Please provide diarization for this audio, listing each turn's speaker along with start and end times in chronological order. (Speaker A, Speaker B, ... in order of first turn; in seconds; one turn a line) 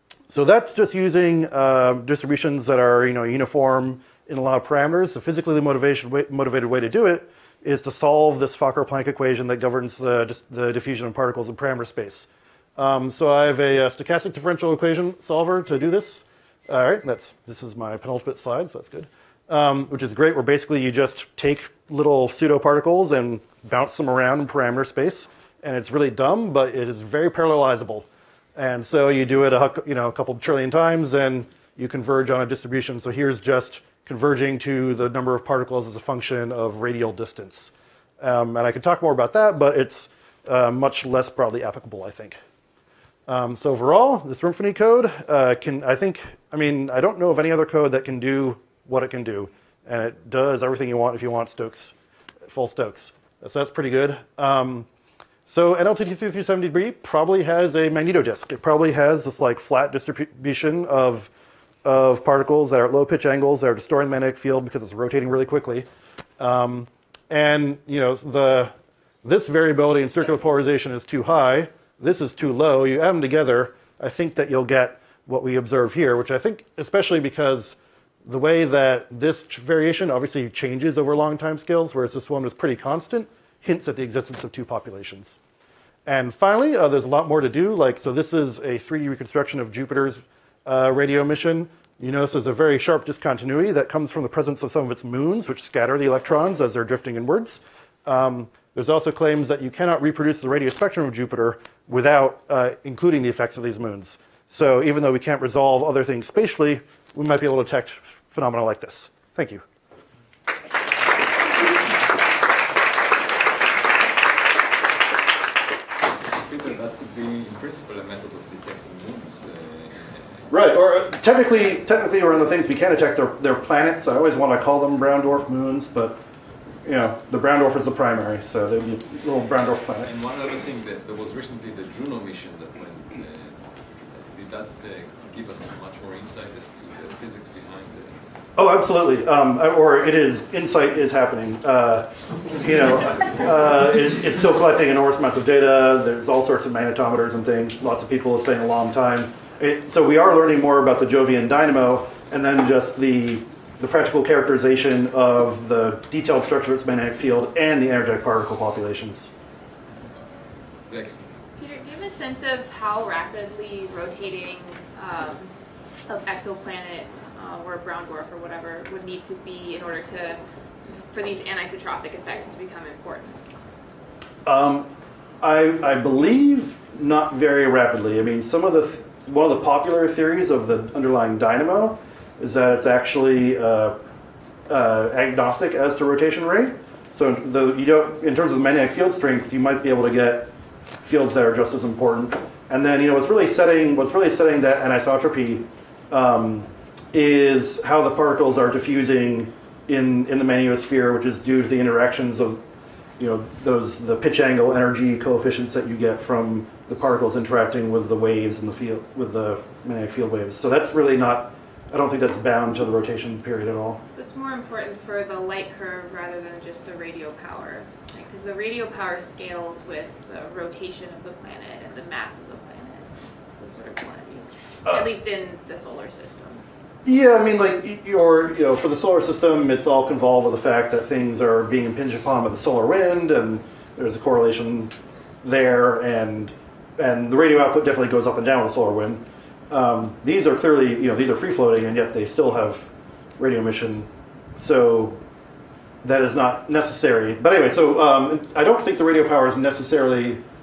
Speaker A: 0.3-42.4
Speaker A: 43.3-51.9
Speaker A: 52.5-54.9
Speaker A: 55.5-61.3
Speaker A: 61.8-65.9
Speaker A: 66.4-85.4
Speaker A: 86.0-109.6
Speaker B: 116.1-120.5
Speaker A: 120.5-126.2
Speaker A: 126.8-130.2
Speaker B: 130.0-138.3
Speaker A: 138.6-159.3
Speaker B: 160.9-161.3
Speaker C: 161.6-165.5
Speaker C: 166.1-173.4
Speaker A: 174.4-184.0
Speaker A: 184.7-202.6
Speaker A: 203.2-214.0
Speaker C: 214.1-226.6
Speaker A: 227.0-245.2
Speaker A: 246.0-250.4